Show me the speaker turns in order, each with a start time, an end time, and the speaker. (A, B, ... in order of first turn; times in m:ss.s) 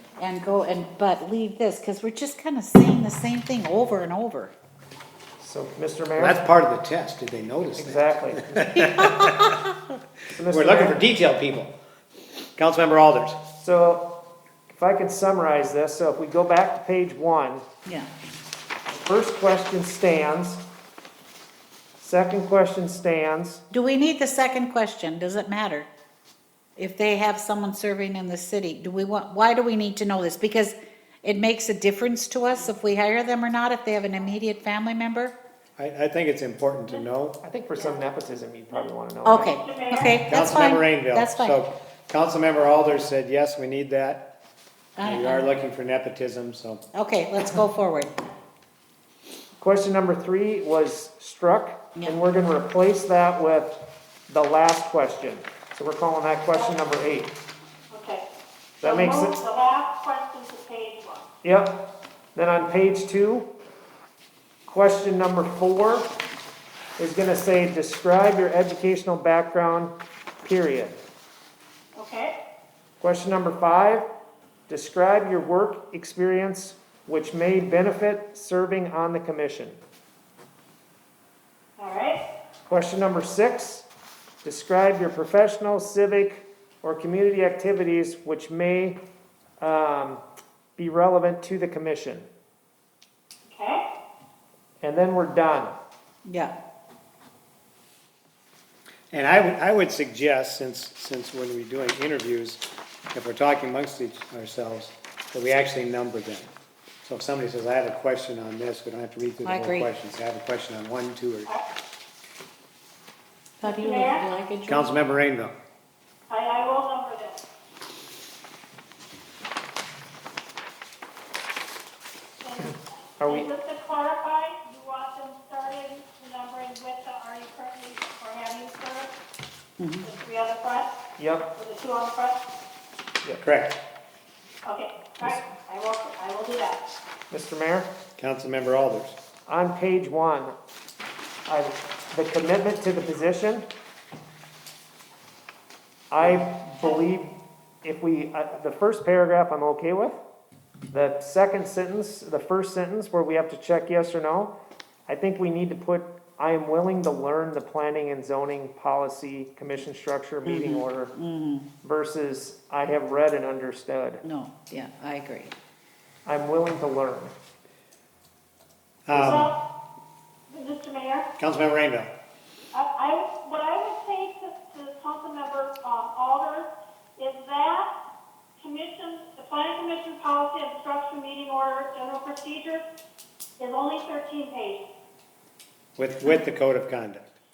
0:00.2-0:04.5 A
0:05.4-0:06.4 B
0:06.2-0:09.3 C
0:07.8-0:09.0 B
0:10.3-0:11.0 B
0:10.5-0:11.7 C
0:12.6-0:13.4 C
0:13.5-0:14.1 B
0:14.7-0:17.6 B
0:17.8-0:18.1 A
0:18.9-0:20.6 B
0:22.0-0:23.6 B
0:23.7-0:25.9 A
0:26.8-0:35.3 A
0:35.8-0:37.4 C
0:37.4-0:39.5 B
0:38.7-0:40.2 D
0:39.2-0:41.6 A
0:40.3-0:44.3 C
0:45.0-0:45.5 A
0:45.0-0:46.8 C
0:46.9-0:48.1 A
0:49.6-0:57.4 B
0:57.9-0:58.3 D
0:58.8-0:59.3 B
0:58.8-1:01.2 D
1:01.4-1:03.5 B
1:04.6-1:06.1 B
1:07.0-1:11.0 B
1:12.0-1:12.3 D
1:13.0-1:14.1 B
1:14.7-1:19.8 B
1:21.8-1:22.2 D
1:22.6-1:23.9 B
1:24.4-1:29.0 B
1:29.6-1:30.2 B
1:30.8-1:32.3 B
1:33.5-1:33.8 D
1:34.8-1:35.8 B
1:36.2-1:36.5 A
1:39.1-1:46.5 C
1:47.0-1:51.5 C
1:49.4-1:49.9 A
1:53.6-1:55.0 A
1:53.6-1:54.3 D
1:54.7-1:55.5 C
1:56.3-1:57.4 D
2:02.4-2:09.1 D
2:02.6-2:03.5 B
2:09.8-2:10.0 A
2:10.0-2:10.9 D
2:11.2-2:11.5 B
2:11.5-2:12.5 D
2:13.4-2:13.8 C
2:14.6-2:16.9 D
2:17.3-2:17.9 B
2:18.2-2:19.2 C
2:19.5-2:20.5 B
2:21.4-2:23.7 B
2:26.1-2:30.2 B
2:30.9-2:34.5 B
2:35.1-2:41.1 B
2:40.4-2:41.6 A
2:41.8-2:44.2 B
2:44.2-2:45.5 A
2:46.2-2:47.3 B
2:49.1-2:49.5 C
2:49.1-2:49.6 D
2:50.5-2:51.3 D
2:51.4-2:52.1 C
2:52.7-2:57.9 D
2:58.6-3:02.8 D
3:03.6-3:04.9 D
3:06.0-3:07.3 C